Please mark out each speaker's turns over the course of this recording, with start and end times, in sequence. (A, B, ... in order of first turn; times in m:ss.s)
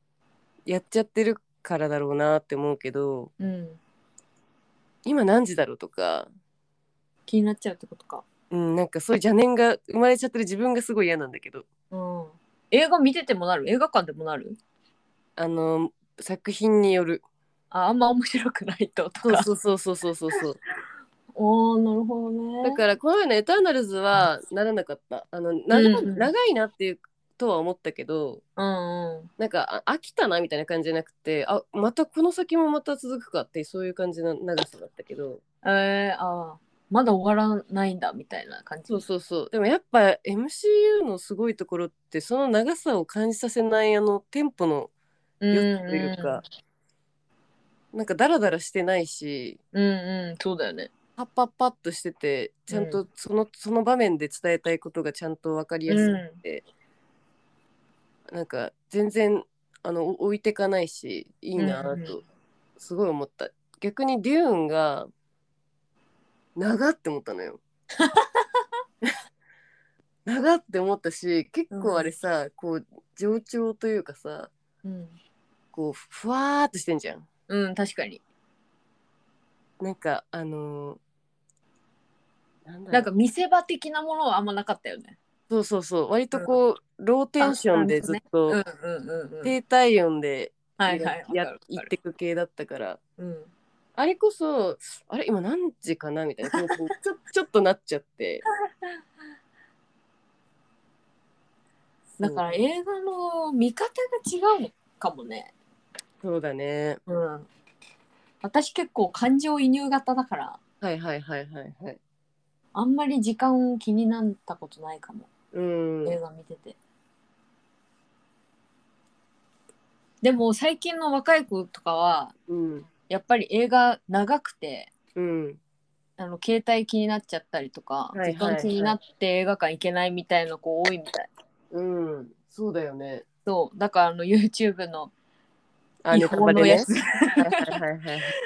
0:00.7-0:03.3 A
0:03.4-0:03.8 B
0:05.1-0:06.3 A
0:07.3-0:08.2 B
0:08.5-0:11.7 A
0:11.9-0:14.6 B
0:15.4-0:17.2 A
0:17.7-0:19.5 B
0:19.2-0:20.6 A
0:21.4-0:22.8 B
0:22.6-0:28.4 A
0:25.7-0:26.3 B
0:28.6-0:29.3 B
0:29.4-0:35.4 A
0:35.6-0:39.0 B
0:38.9-0:44.9 A
0:45.4-0:46.4 B
0:45.5-0:46.4 A
0:47.9-0:49.6 A
0:49.7-0:50.9 B
0:51.2-0:56.6 A
0:52.7-0:53.0 B
0:55.9-0:56.4 B
0:58.3-1:02.2 A
1:01.6-1:02.1 B
1:02.8-1:05.1 A
1:06.6-1:07.6 A
1:08.0-1:08.6 B
1:10.3-1:14.5 A
1:11.7-1:12.1 B
1:14.8-1:15.2 B
1:15.7-1:17.3 A
1:17.5-1:18.2 B
1:19.8-1:21.0 A
1:22.7-1:23.1 A
1:22.9-1:25.2 B
1:25.5-1:28.6 A
1:27.4-1:29.6 B
1:29.4-1:33.0 A
1:30.8-1:31.9 B
1:33.2-1:33.5 B
1:34.0-1:38.4 A
1:36.5-1:36.8 B
1:42.2-1:45.5 B
1:42.2-1:42.4 A
1:46.2-1:47.0 A
1:47.1-1:47.5 B
1:48.4-1:50.6 B
1:50.8-1:52.0 A
1:52.7-1:55.3 B
1:55.5-1:56.2 A
1:56.0-1:56.8 B
2:00.2-2:02.3 B
2:02.5-2:02.9 A
2:03.1-2:04.9 B
2:05.2-2:05.6 A
2:06.2-2:11.3 B
2:08.1-2:09.0 A
2:11.7-2:13.2 A
2:13.4-2:15.1 B
2:16.0-2:18.3 A
2:16.1-2:17.7 B